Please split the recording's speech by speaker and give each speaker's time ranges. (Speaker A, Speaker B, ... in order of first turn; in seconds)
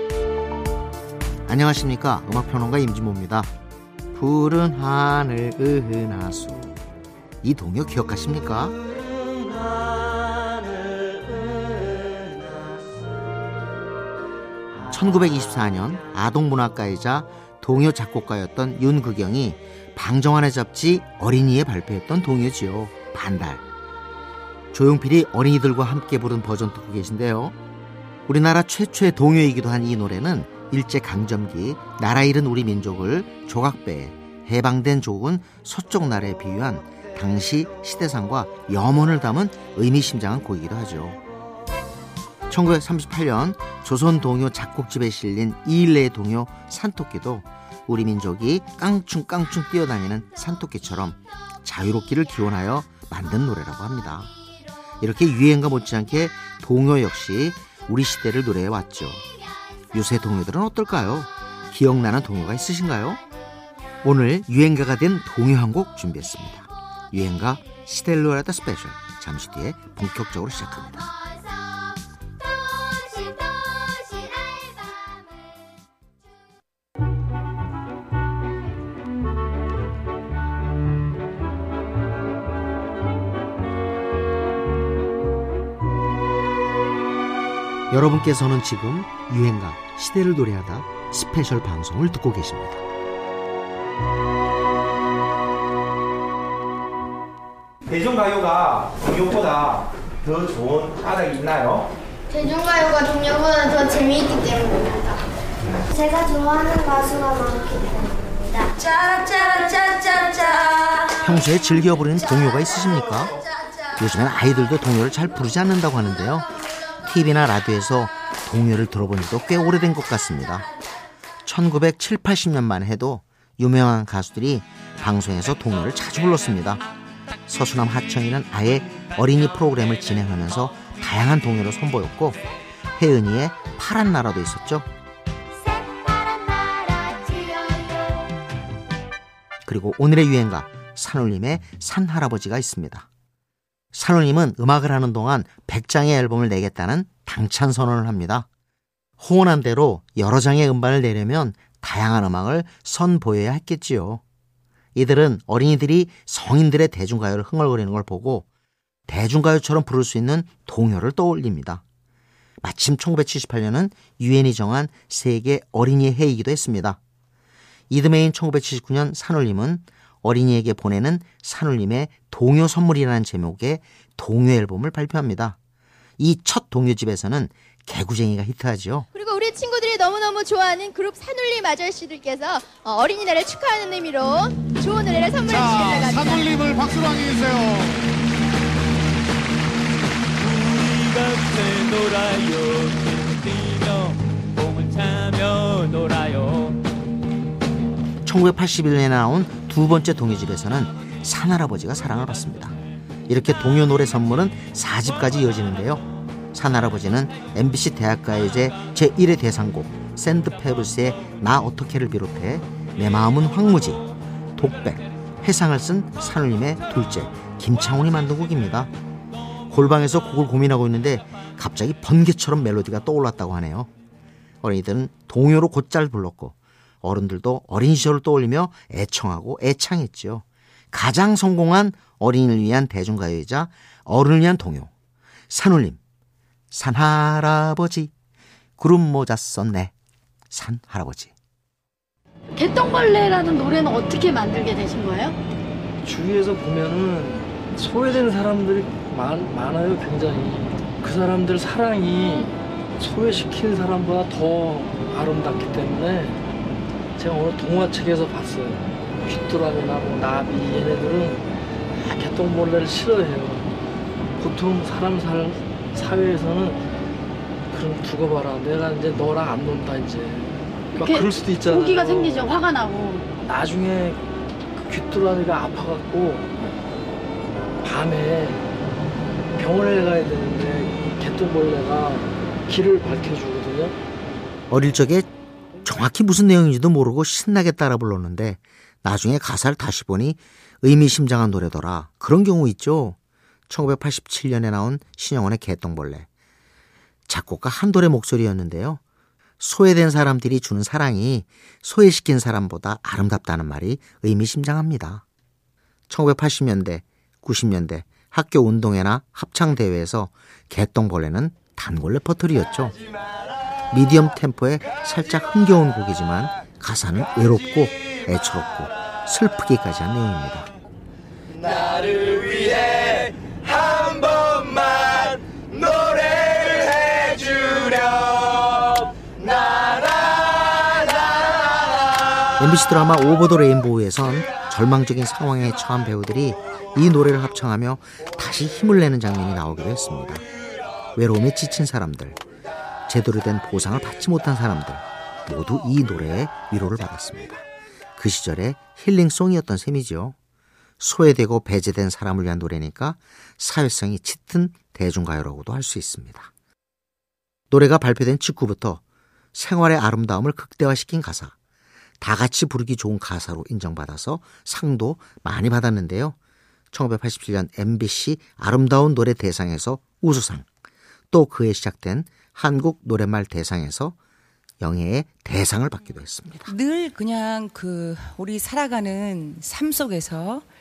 Speaker A: 1.5-3.5, 4.1-6.8, 7.4-8.8, 14.9-23.6, 24.7-27.6, 28.3-41.2, 42.5-54.3, 55.0-59.2, 59.9-63.2, 64.0-71.1, 87.9-92.8, 111.2-113.3, 114.0-116.5, 117.0-120.7, 121.4-126.8, 127.5-132.4, 133.0-134.9, 139.7-143.1, 143.9-148.4, 149.2-154.2, 154.9-158.5, 159.1-161.8, 162.6-167.0, 167.9-175.6, 176.2-179.1, 198.2-202.8, 203.3-214.1, 214.6-218.9, 219.7-223.9, 224.6-234.9, 235.5-236.0, 236.7-238.1, 238.8-239.9, 240.5-241.3, 284.7-285.3, 285.8-293.2, 293.7-296.3, 297.3-299.0, 299.6-305.2, 306.1-312.9, 313.9-320.7, 332.6-340.4, 341.1-342.4, 343.1-347.6, 348.2-350.4, 351.0-356.5, 357.7-359.0, 359.5-361.5, 362.2-366.3, 366.9-370.6, 371.3-374.1, 374.8-376.7
Speaker B: 97.9-99.7, 100.3-101.8
Speaker C: 102.3-104.8, 106.0-108.7, 185.5-187.6
Speaker D: 179.2-187.6
Speaker E: 190.4-196.8
Speaker F: 242.6-245.3, 270.9-273.3
Speaker G: 246.0-256.4, 257.2-261.5, 262.0-263.7, 264.4-266.8, 267.7-272.4, 273.4-274.2, 274.8-276.5, 277.8-278.6, 279.6-283.9
Speaker H: 376.7-380.6